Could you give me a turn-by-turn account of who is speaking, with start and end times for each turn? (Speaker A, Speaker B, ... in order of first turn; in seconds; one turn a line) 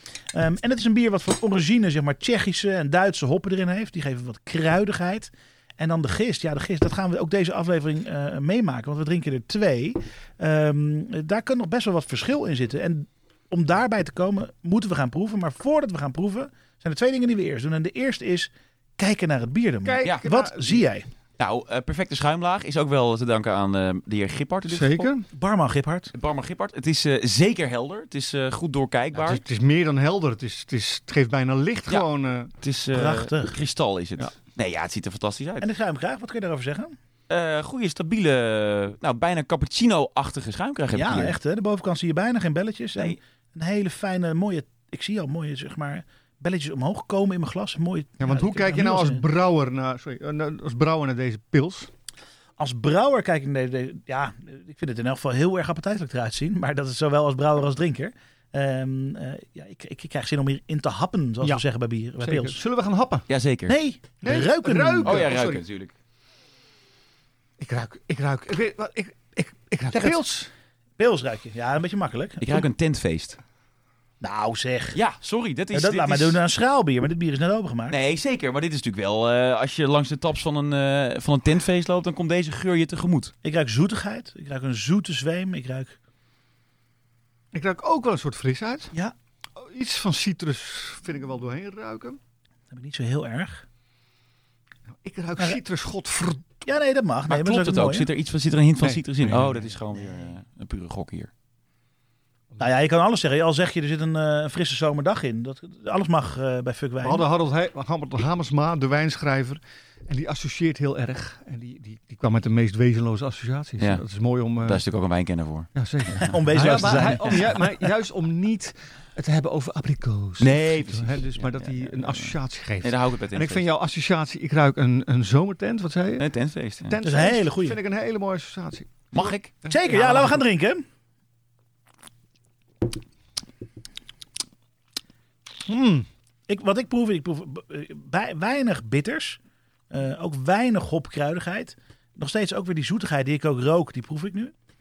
Speaker A: 0.3-21.1
Speaker B: 19.9-20.8
Speaker C: 21.4-25.1
Speaker B: 24.7-25.3
Speaker A: 25.3-26.1
Speaker C: 26.1-29.4
Speaker B: 29.1-32.5
Speaker C: 32.6-35.7
Speaker A: 32.9-33.6
Speaker A: 35.6-37.0
Speaker C: 37.3-41.4
Speaker A: 40.9-49.2
Speaker B: 48.2-51.9
Speaker A: 52.6-62.6
Speaker B: 62.2-63.3
Speaker C: 63.3-63.8
Speaker A: 63.7-65.3
Speaker B: 64.2-65.6
Speaker C: 65.0-65.9
Speaker B: 67.6-70.5
Speaker A: 69.9-70.2
Speaker A: 71.0-72.7
Speaker C: 72.4-73.4
Speaker A: 74.2-75.0
Speaker C: 74.9-76.4
Speaker A: 75.7-78.0
Speaker C: 77.9-83.3
Speaker A: 83.4-86.0
Speaker B: 87.5-88.9
Speaker B: 89.6-92.2
Speaker A: 92.7-93.7
Speaker B: 95.0-96.5
Speaker A: 96.6-98.1
Speaker C: 97.3-101.3
Speaker B: 98.8-99.6
Speaker A: 102.6-107.3
Speaker B: 107.0-114.8
Speaker C: 114.6-115.7
Speaker B: 115.8-126.3
Speaker A: 116.2-117.6
Speaker C: 120.4-123.7
Speaker C: 126.2-127.0
Speaker B: 126.8-130.4
Speaker A: 127.0-127.8
Speaker C: 129.1-129.5
Speaker A: 129.7-130.8
Speaker B: 135.7-136.1
Speaker A: 136.5-139.4
Speaker A: 139.9-144.5